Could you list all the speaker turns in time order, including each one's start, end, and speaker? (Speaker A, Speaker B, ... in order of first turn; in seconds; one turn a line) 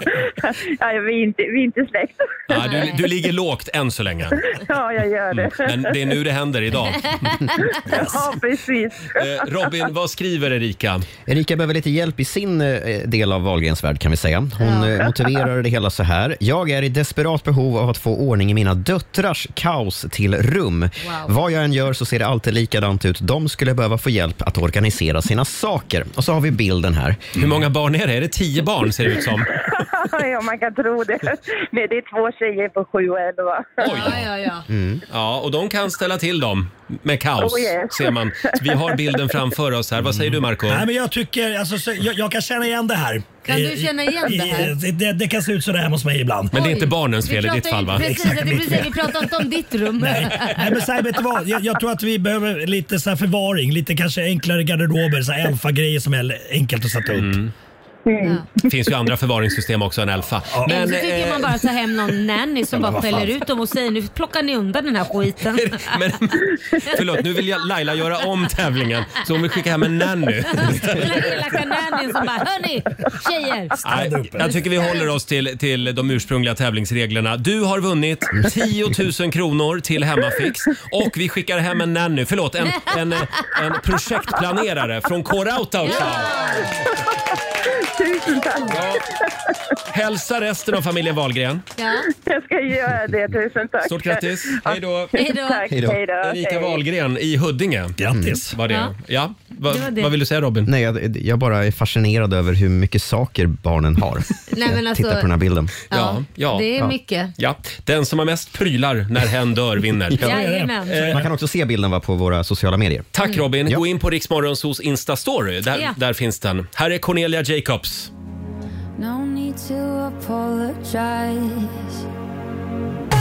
Speaker A: 0.8-2.9
Speaker B: 2.5-4.5
Speaker C: 2.6-3.0
Speaker A: 4.5-6.2
Speaker B: 5.3-7.4
Speaker A: 7.7-9.7
Speaker D: 7.8-8.2
Speaker B: 9.1-11.1
Speaker E: 11.3-27.4
Speaker C: 14.6-14.9
Speaker C: 21.0-21.3
Speaker B: 27.4-29.7
Speaker A: 29.7-33.9
Speaker B: 33.8-34.2
Speaker C: 33.8-34.6
Speaker E: 34.7-35.0
Speaker B: 35.1-40.9
Speaker A: 37.4-39.2
Speaker D: 40.1-46.5
Speaker C: 43.5-44.7
Speaker B: 46.5-48.1
Speaker C: 46.5-50.8
Speaker D: 47.9-49.5
Speaker D: 50.0-57.4
Speaker B: 57.1-57.5
Speaker C: 58.2-58.5
Speaker B: 58.6-61.7
Speaker C: 60.6-66.0
Speaker D: 62.7-63.4
Speaker B: 65.5-71.3
Speaker C: 70.5-73.8
Speaker D: 73.8-74.5
Speaker B: 73.8-86.6
Speaker C: 74.4-75.1
Speaker C: 85.8-86.9
Speaker A: 87.9-89.0
Speaker B: 88.7-89.0
Speaker B: 89.9-91.7
Speaker C: 91.8-92.1
Speaker A: 92.1-96.8
Speaker B: 93.8-95.2
Speaker C: 95.1-95.7
Speaker E: 95.7-96.0
Speaker B: 96.2-98.0
Speaker D: 98.0-98.5
Speaker E: 98.1-98.4
Speaker B: 98.5-100.7
Speaker C: 98.7-98.9
Speaker C: 99.7-100.1
Speaker E: 100.6-105.7
Speaker C: 104.5-105.3
Speaker C: 105.9-107.3
Speaker B: 105.9-110.3
Speaker D: 110.1-111.2
Speaker C: 110.2-111.0
Speaker B: 110.9-111.2
Speaker E: 110.9-113.1
Speaker B: 113.1-118.1